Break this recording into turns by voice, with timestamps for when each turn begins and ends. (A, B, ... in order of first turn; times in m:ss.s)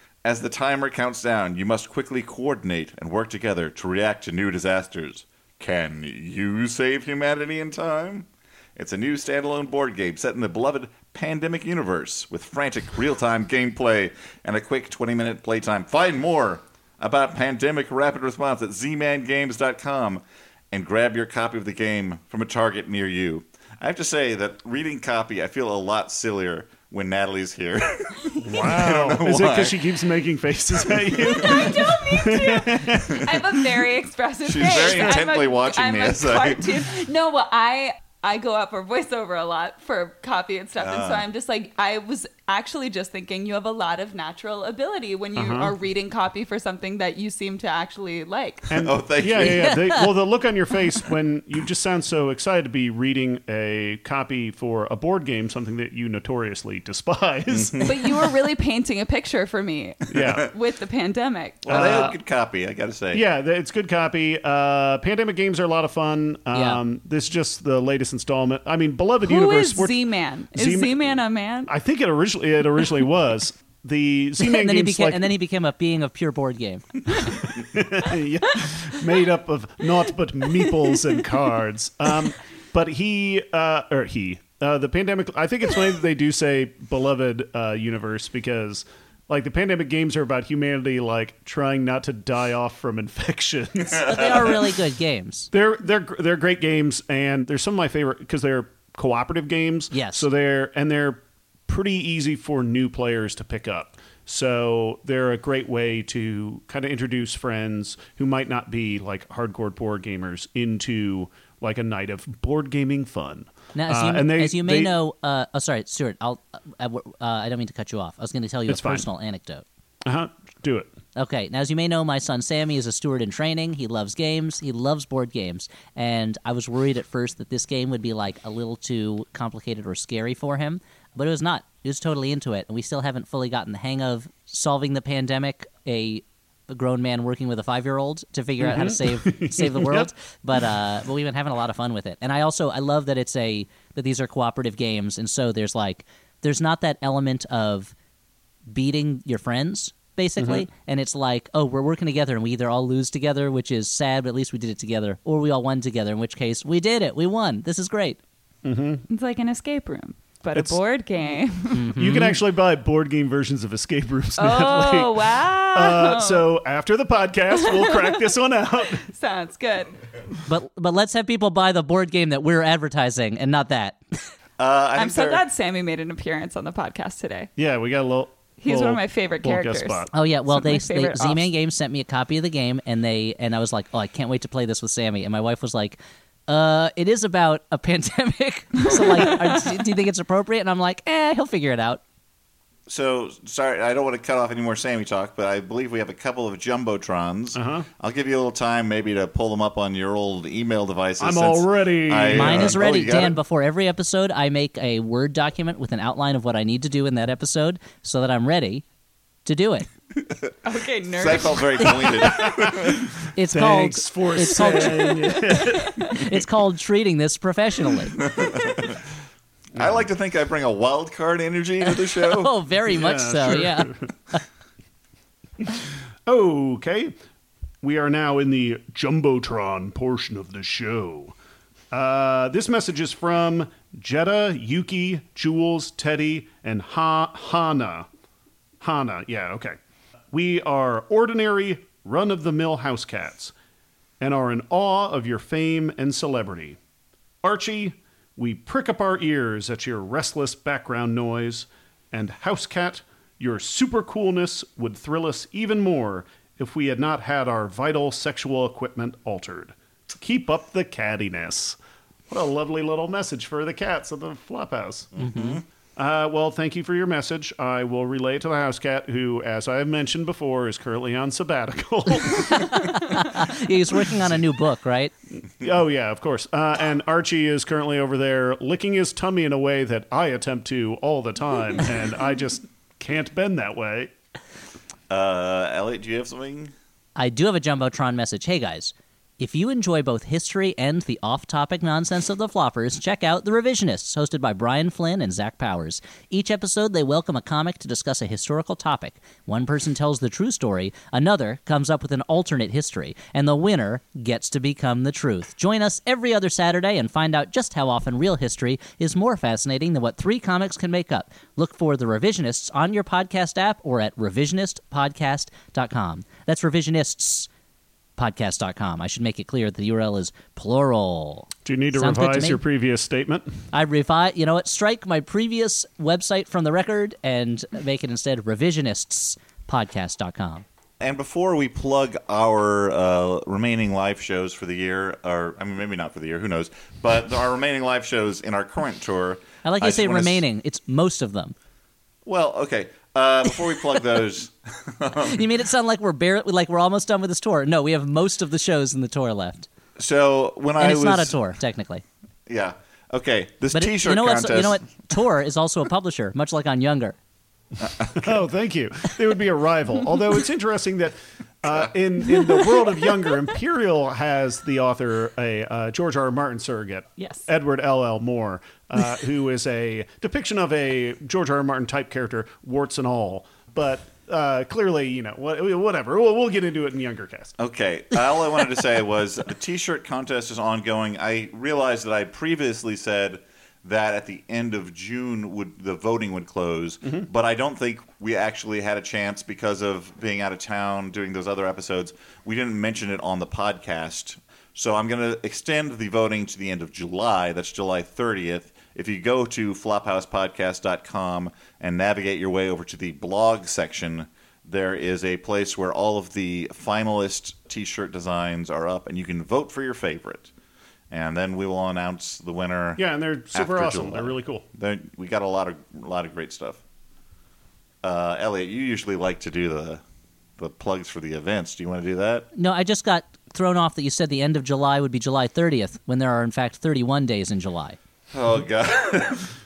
0:00.2-0:29.9 A
0:28.3-0:28.5 B
0:28.4-0:33.4 C
0:31.1-0:31.4 A
0:31.3-0:48.7 B
0:34.4-0:36.7 A
0:34.7-0:35.2 C
0:40.8-0:41.2 A
0:45.4-0:45.7 C
0:48.7-0:58.1 C
0:48.8-0:49.7 A
0:49.4-0:50.0 D
0:57.5-0:57.9 A
0:57.8-1:02.1 B
1:00.1-1:00.5 C
1:01.6-1:03.2 A
1:01.7-1:02.2 C
1:03.1-1:10.0 C
1:06.5-1:06.8 D
1:09.2-1:11.7 B
1:10.5-1:15.3 C
1:14.4-1:17.4 D
1:17.3-1:34.4 C
1:33.9-1:34.5 A
1:34.0-1:35.5 D
1:35.5-1:55.0 C
1:39.9-1:40.3 D
1:53.7-1:59.6 D
1:58.7-1:59.1 C
2:00.0-2:00.9 C
2:01.2-2:27.9 D
2:18.6-2:20.1 C
2:28.7-2:38.2 D
2:30.4-2:30.6 C
2:38.6-2:39.0 C
2:39.1-2:41.9 B
2:40.5-2:40.8 C
2:41.7-2:42.4 D
2:42.0-2:49.1 C
2:44.4-2:46.5 B
2:47.5-2:48.3 B
2:49.0-2:49.9 B
2:50.5-2:54.0 D
2:54.6-2:55.4 A
2:54.9-2:57.5 B
2:57.6-3:00.1 C
2:58.6-3:01.5 B
3:00.1-3:12.0 D
3:08.9-3:09.7 B
3:12.9-3:23.4 A
3:17.6-3:17.8 C
3:21.2-3:22.8 C
3:22.3-3:28.8 D
3:29.4-3:29.9 D
3:30.6-3:32.3 B
3:31.1-3:33.0 A
3:32.3-3:36.4 C
3:33.4-3:35.4 D
3:34.5-3:36.1 B
3:36.1-3:38.1 D
3:38.2-3:39.0 A
3:39.8-3:40.1 C
3:39.8-3:42.5 A
3:41.9-3:44.4 D
3:42.9-3:44.1 C
3:45.6-3:47.1 C
3:47.8-3:51.3 C
3:51.9-3:58.1 C
3:58.8-3:59.8 C
4:00.3-4:03.5 C
4:04.2-4:06.8 C
4:07.4-4:21.8 C
4:22.3-4:25.2 C
4:25.1-4:25.6 A
4:25.2-4:25.6 D
4:26.0-4:32.7 C
4:32.2-4:35.1 D
4:35.6-4:44.1 C
4:45.1-4:46.7 A
4:47.2-5:17.5 D
5:18.2-5:22.6 D
5:21.6-5:23.5 C
5:23.7-5:30.6 D
5:31.0-5:40.4 A
5:39.6-5:41.6 D
5:42.3-5:45.4 A
5:45.3-5:49.7 D
5:50.0-5:51.4 A
5:50.8-5:52.0 D
5:52.5-5:54.8 A
5:53.7-5:57.2 D
5:57.8-5:58.4 A
5:58.2-6:17.6 C
6:07.2-6:07.4 B
6:17.6-6:50.5 A
6:27.0-6:27.3 C
6:51.1-6:56.8 A
6:53.0-6:54.6 C
6:58.0-7:00.0 A
7:00.6-7:02.5 A
7:02.6-7:08.0 D
7:08.3-7:09.5 A